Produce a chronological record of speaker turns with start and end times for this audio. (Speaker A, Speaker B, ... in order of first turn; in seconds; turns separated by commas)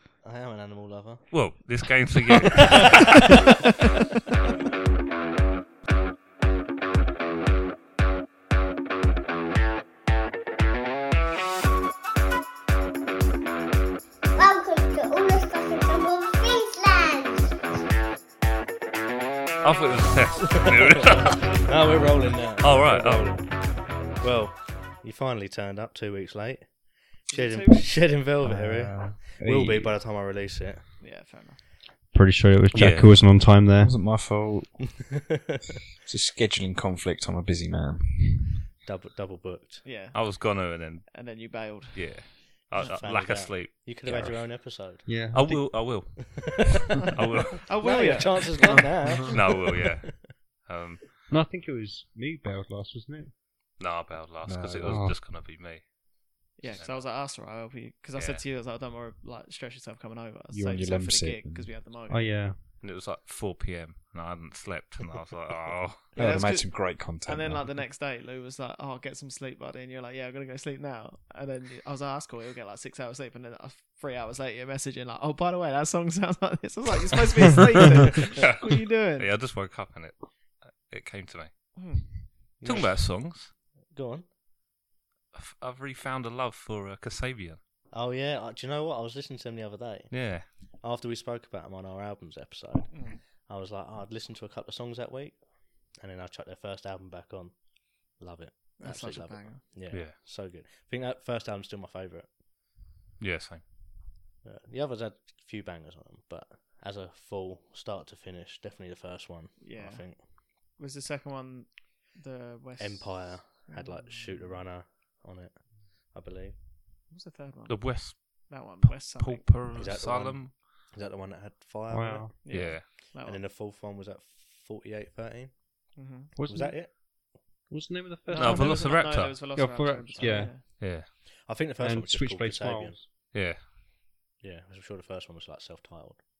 Speaker A: 0.2-1.5, Speaker B: 1.3-3.0, Speaker A: 2.9-3.3, Speaker C: 14.3-17.6, Speaker B: 19.6-21.5, Speaker A: 20.5-30.8, Speaker B: 22.6-23.4, Speaker D: 27.3-28.2, Speaker E: 28.4-30.0, Speaker D: 31.0-31.6, Speaker F: 32.1-33.9, Speaker B: 32.7-33.1, Speaker E: 33.8-34.8, Speaker A: 34.9-35.6, Speaker E: 36.0-38.6, Speaker A: 38.8-39.8, Speaker D: 39.8-40.4, Speaker B: 40.1-41.3, Speaker D: 41.1-42.9, Speaker B: 41.9-44.1, Speaker A: 42.7-45.1, Speaker F: 45.0-46.3, Speaker B: 45.3-46.6, Speaker A: 46.1-47.1, Speaker B: 47.1-47.6, Speaker D: 47.6-48.8, Speaker A: 47.8-50.3, Speaker B: 49.3-51.0, Speaker F: 51.3-53.4, Speaker B: 53.8-57.0, Speaker E: 54.4-55.2, Speaker F: 54.8-55.2, Speaker D: 56.6-62.4, Speaker B: 58.1-58.4, Speaker E: 60.5-61.8, Speaker F: 62.1-62.6, Speaker B: 62.8-66.0, Speaker E: 66.2-67.7, Speaker D: 66.2-79.3, Speaker B: 78.4-81.8, Speaker D: 81.7-82.3, Speaker A: 82.6-84.3, Speaker B: 82.6-83.5, Speaker B: 85.3-87.6, Speaker A: 87.9-102.3, Speaker B: 90.1-90.5, Speaker D: 92.9-93.2, Speaker D: 98.8-99.8, Speaker B: 99.9-100.1, Speaker B: 103.2-103.6, Speaker A: 104.4-110.2, Speaker D: 109.6-114.6, Speaker A: 112.8-116.6, Speaker D: 117.1-119.6, Speaker B: 117.7-120.5, Speaker A: 119.7-127.3, Speaker F: 121.9-122.3, Speaker D: 122.4-123.4, Speaker B: 122.5-122.8, Speaker D: 126.0-126.3, Speaker F: 126.3-127.1, Speaker F: 127.7-131.2, Speaker D: 128.3-130.6, Speaker B: 128.3-129.4, Speaker A: 130.2-133.0, Speaker B: 130.8-131.1, Speaker F: 131.8-133.1, Speaker B: 133.3-133.6, Speaker A: 134.4-136.2